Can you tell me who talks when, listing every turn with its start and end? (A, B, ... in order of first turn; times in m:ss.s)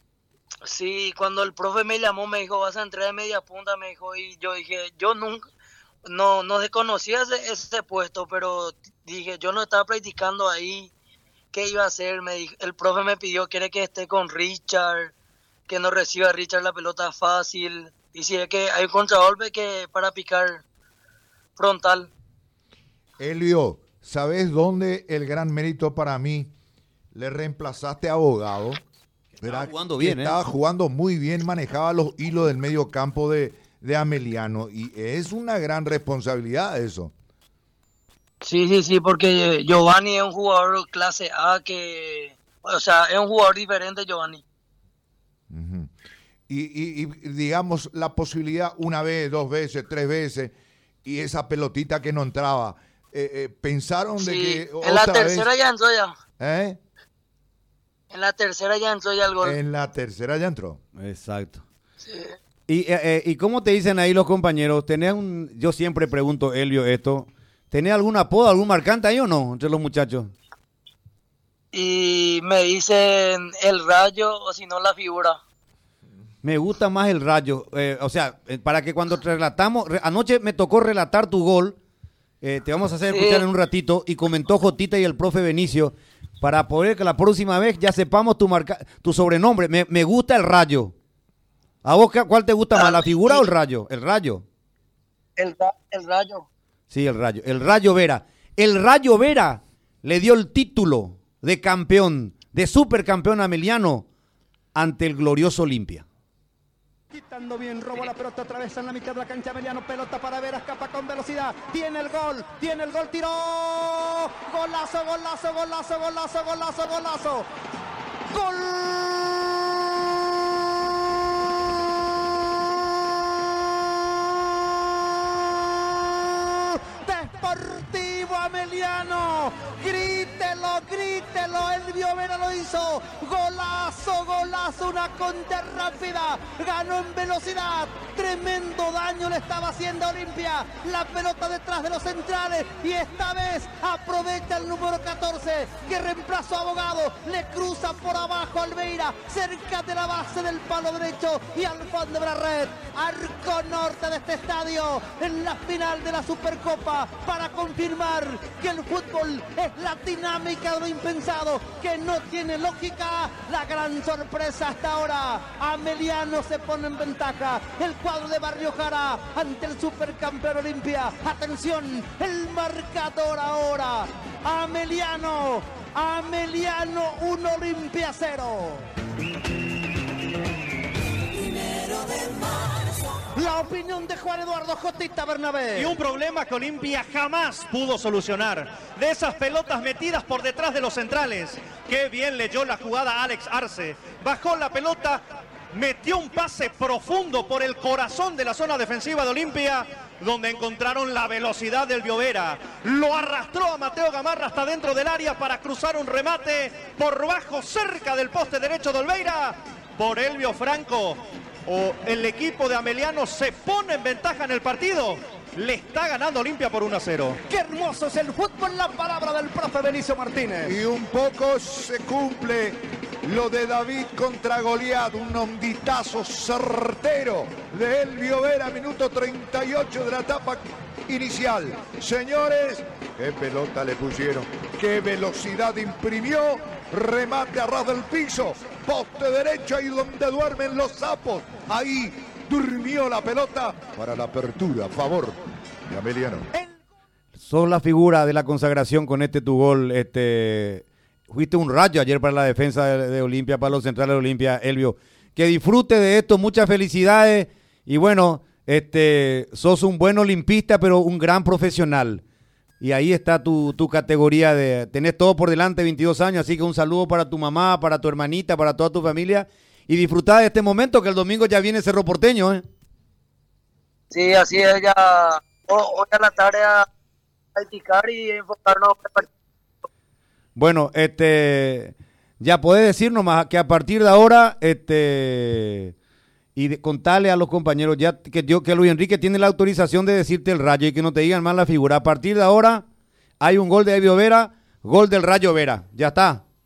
0:00.6-0:05.4 A
0:06.0-0:10.9 A
0:11.5-0:15.1 A
0:15.7-0:20.6 A
0:21.6-0:22.1 A
0:23.2-0:26.5 B
0:27.1-0:28.8 B
0:29.4-0:37.1 B
0:29.4-0:30.4 C
0:38.4-0:44.4 A
0:45.5-0:45.9 B
0:46.5-0:55.5 B
0:54.2-0:56.1 A
0:56.4-0:56.8 B
0:58.1-0:59.6 A
0:59.4-1:00.8 B
1:01.0-1:01.6 C
1:02.0-1:02.3 A
1:02.7-1:10.3 C
1:11.7-1:15.4 A
1:16.4-1:21.8 C
1:22.4-1:30.9 C
1:23.1-1:23.4 A
1:31.8-1:34.4 C
1:32.7-1:33.5 A
1:35.4-1:36.5 A
1:36.9-1:44.0 C
1:44.7-1:46.0 C
1:47.1-1:57.4 D
1:58.3-2:58.9 D
3:01.7-3:02.2 D
3:03.2-3:06.0 D
3:05.8-3:37.4 E
3:37.5-3:40.8 D
3:40.6-4:06.5 B
4:07.4-4:22.2 C
4:22.8-4:32.6 C
4:34.1-4:36.8 A
4:37.5-4:39.3 A
4:40.6-4:45.9 C
4:46.6-4:52.8 C
4:53.4-4:56.4 C